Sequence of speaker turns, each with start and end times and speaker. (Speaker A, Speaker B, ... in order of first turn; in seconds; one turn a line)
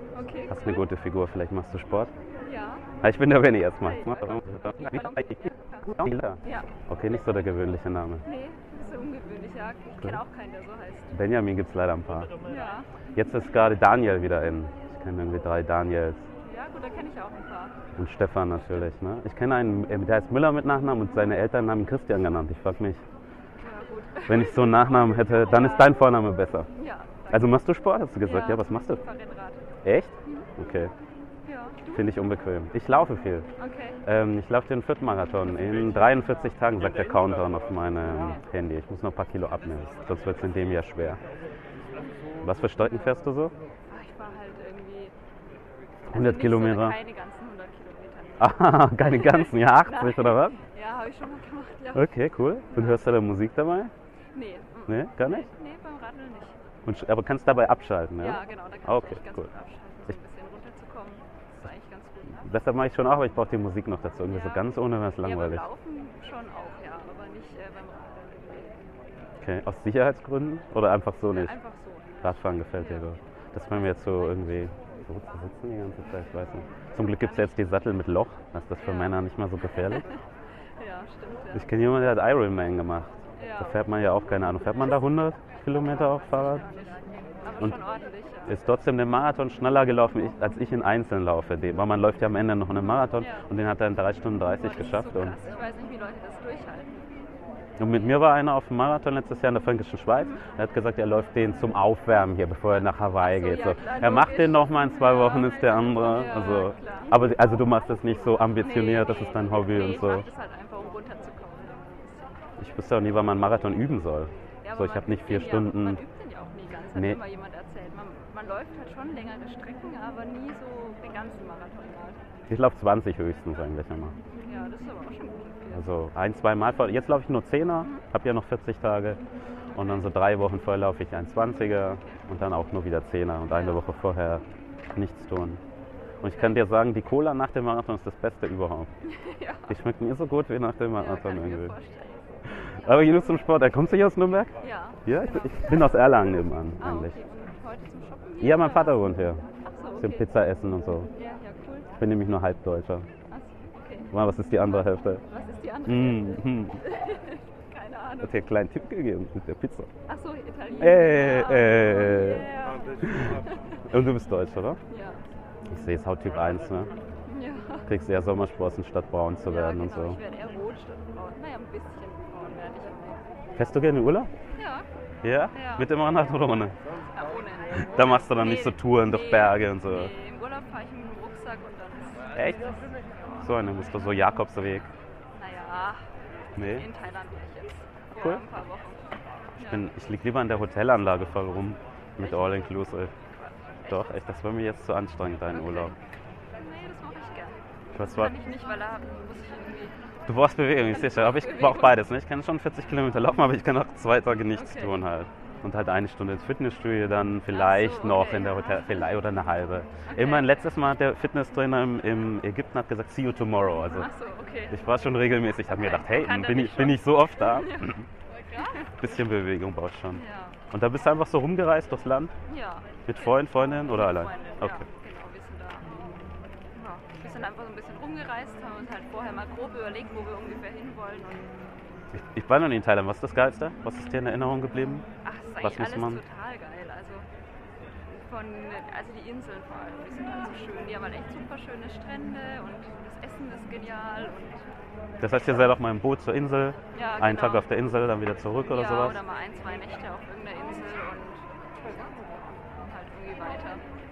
Speaker A: 0.1-0.9
Speaker B: 0.5-2.1
Speaker A: 2.4-2.9
Speaker B: 3.0-8.2
Speaker A: 3.8-6.7
Speaker A: 8.2-11.1
Speaker B: 11.1-12.3
Speaker A: 12.4-12.9
Speaker B: 13.1-16.2
Speaker A: 16.4-17.8
Speaker B: 17.9-23.0
Speaker A: 18.6-18.9
Speaker A: 23.6-26.2
Speaker B: 24.3-26.7
Speaker A: 26.7-27.6
Speaker B: 27.3-29.0
Speaker A: 28.2-29.7
Speaker B: 29.8-30.9
Speaker A: 31.4-32.1
Speaker B: 31.9-33.5
Speaker A: 33.6-34.0
Speaker B: 34.0-41.2
Speaker A: 38.0-38.4
Speaker A: 42.0-42.2
Speaker B: 42.4-43.5
Speaker A: 43.9-45.1
Speaker A: 46.1-52.1
Speaker B: 46.1-47.0
Speaker B: 48.4-50.6
Speaker B: 51.9-53.9
Speaker A: 52.7-53.2
Speaker A: 54.3-56.5
Speaker B: 54.9-55.5
Speaker B: 56.8-59.5
Speaker A: 58.2-62.7
Speaker B: 62.3-65.7
Speaker A: 64.3-68.7
Speaker B: 69.4-71.5
Speaker A: 71.3-73.1
Speaker B: 72.2-80.0
Speaker A: 73.7-74.7
Speaker A: 77.0-77.5
Speaker A: 78.8-80.2
Speaker A: 80.8-81.7
Speaker B: 81.5-86.6
Speaker A: 83.4-83.8
Speaker A: 86.1-88.6
Speaker B: 88.5-95.4
Speaker A: 92.8-93.5
Speaker A: 94.6-97.1
Speaker B: 97.8-110.2
Speaker A: 103.2-107.2
Speaker A: 108.5-112.3
Speaker B: 112.6-116.0
Speaker A: 114.6-122.2
Speaker B: 116.9-117.2
Speaker B: 122.5-124.2
Speaker A: 124.4-125.8
Speaker B: 125.7-129.2
Speaker A: 129.7-130.1
Speaker B: 129.7-134.4
Speaker A: 133.5-133.8
Speaker B: 134.9-135.6
Speaker B: 136.2-138.9
Speaker A: 136.3-136.6
Speaker A: 139.0-139.7
Speaker B: 139.7-141.7
Speaker A: 140.9-143.4
Speaker B: 142.7-147.1
Speaker A: 144.6-150.3
Speaker B: 148.4-149.4
Speaker B: 150.0-151.1
Speaker A: 151.1-152.0
Speaker B: 152.0-153.1
Speaker A: 153.3-158.4
Speaker B: 154.1-155.2
Speaker B: 155.8-156.8
Speaker B: 158.2-159.9
Speaker A: 160.1-163.8
Speaker B: 160.8-162.5
Speaker B: 163.0-164.8
Speaker A: 164.9-165.2
Speaker B: 165.7-166.9
Speaker A: 167.3-167.9
Speaker B: 167.8-170.2
Speaker A: 169.4-173.2
Speaker B: 173.6-174.3
Speaker A: 174.5-174.8
Speaker B: 175.2-176.7
Speaker A: 175.5-175.9
Speaker A: 177.1-183.5
Speaker B: 177.8-180.1
Speaker B: 182.3-182.8
Speaker B: 183.4-184.9
Speaker A: 185.3-186.0
Speaker B: 186.6-186.9
Speaker A: 186.6-189.0
Speaker B: 188.2-188.4
Speaker A: 189.6-189.9
Speaker B: 189.6-193.1
Speaker A: 192.2-194.2
Speaker B: 193.9-195.9
Speaker A: 195.5-195.9
Speaker A: 196.6-200.0
Speaker B: 197.9-198.3
Speaker B: 200.2-214.1
Speaker A: 200.9-202.0
Speaker A: 204.5-205.0
Speaker A: 207.5-209.2
Speaker A: 210.1-210.6
Speaker A: 213.7-214.8
Speaker B: 214.7-218.1
Speaker A: 215.7-219.2
Speaker B: 219.0-222.3
Speaker A: 220.1-220.6
Speaker A: 222.5-226.0
Speaker B: 223.1-224.8
Speaker A: 226.7-231.6
Speaker B: 232.1-235.0
Speaker A: 235.2-237.2
Speaker B: 235.6-236.2
Speaker A: 238.1-244.6
Speaker B: 245.2-249.2
Speaker A: 246.9-247.7
Speaker A: 248.6-253.8